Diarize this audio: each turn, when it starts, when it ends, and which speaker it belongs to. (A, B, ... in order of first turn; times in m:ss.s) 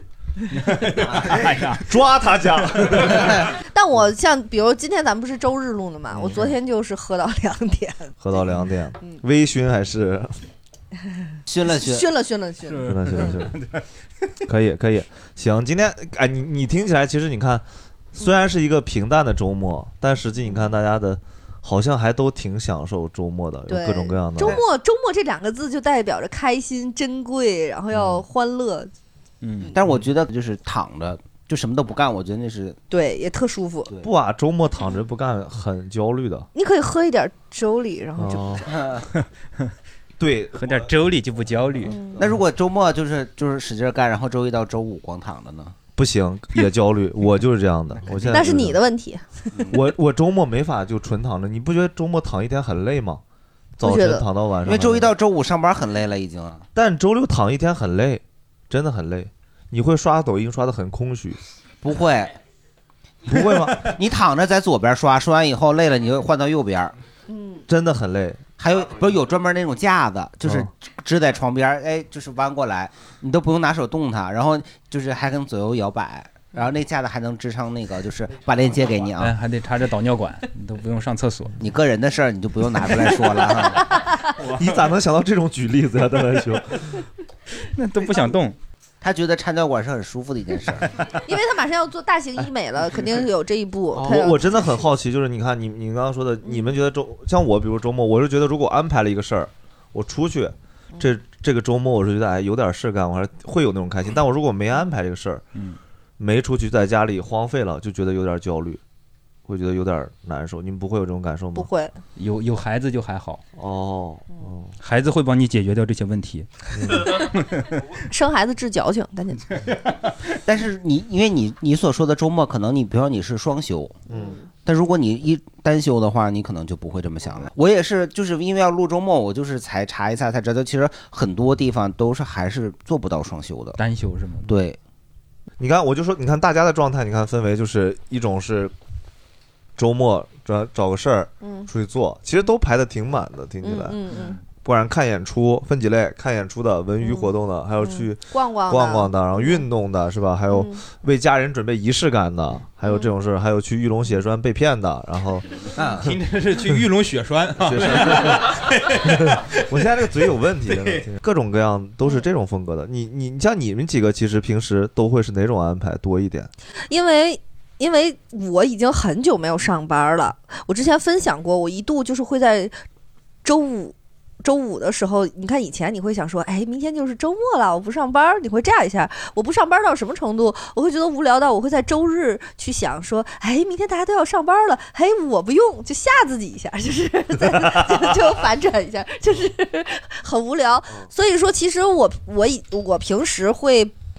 0:00.5-0:01.9 A
0:01.8-0:03.4 B
0:03.6-0:09.2 C
0:08.2-0:10.4 B
0:11.5-0:12.1 D
0:11.7-0:13.4 C
0:12.7-0:13.8 A
0:12.8-0:13.5 B
0:14.5-0:24.6 B
0:23.7-0:28.9 C
0:27.9-0:28.2 B
0:29.4-0:29.7 A
0:29.7-0:32.8 D
0:32.9-0:33.9 C
0:34.0-0:36.5 B
0:36.6-0:38.7 C
0:38.2-0:38.7 B
0:38.7-0:39.0 D
0:40.2-0:40.9 B
0:40.5-0:42.0 A
0:41.8-0:42.2 C
0:42.2-0:45.8 D
0:46.0-0:48.8 B
0:48.2-0:49.2 C
0:49.7-0:53.2 B
0:53.8-0:55.1 B
0:53.8-0:54.3 C
0:54.6-0:56.7 D
0:56.8-1:01.4 B
1:01.8-1:02.4 D
1:03.3-1:03.9 B
1:03.8-1:06.9 D
1:07.3-1:07.6 C
1:07.7-1:08.4 B
1:08.6-1:19.3 D
1:19.2-1:21.6 A
1:21.6-1:23.9 D
1:24.4-1:24.7 A
1:24.6-1:27.0 B
1:27.6-1:28.6 A
1:29.0-1:30.9 D
1:31.2-1:34.7 C
1:34.0-1:45.4 B
1:46.2-1:48.8 B
1:49.5-1:51.7 B
1:51.6-1:52.0 C
1:52.2-1:53.4 A
1:53.6-1:54.7 B
1:54.8-1:56.5 A
1:56.8-1:57.1 B
1:57.0-1:57.7 A
1:58.0-1:59.6 C
2:00.4-2:04.0 D
2:04.1-2:04.5 C
2:04.1-2:04.4 B
2:04.6-2:13.8 D
2:13.8-2:14.5 A
2:14.4-2:14.8 D
2:15.6-2:18.7 B
2:19.8-2:24.0 B
2:21.4-2:21.7 C
2:23.6-2:24.4 C
2:24.6-2:35.5 B
2:27.0-2:29.7 C
2:30.5-2:30.8 C
2:32.8-2:33.1 C
2:35.7-2:36.1 D
2:36.0-2:39.6 A
2:37.6-2:46.5 B
2:40.7-2:41.0 A
2:46.9-2:52.8 C
2:53.4-3:13.9 C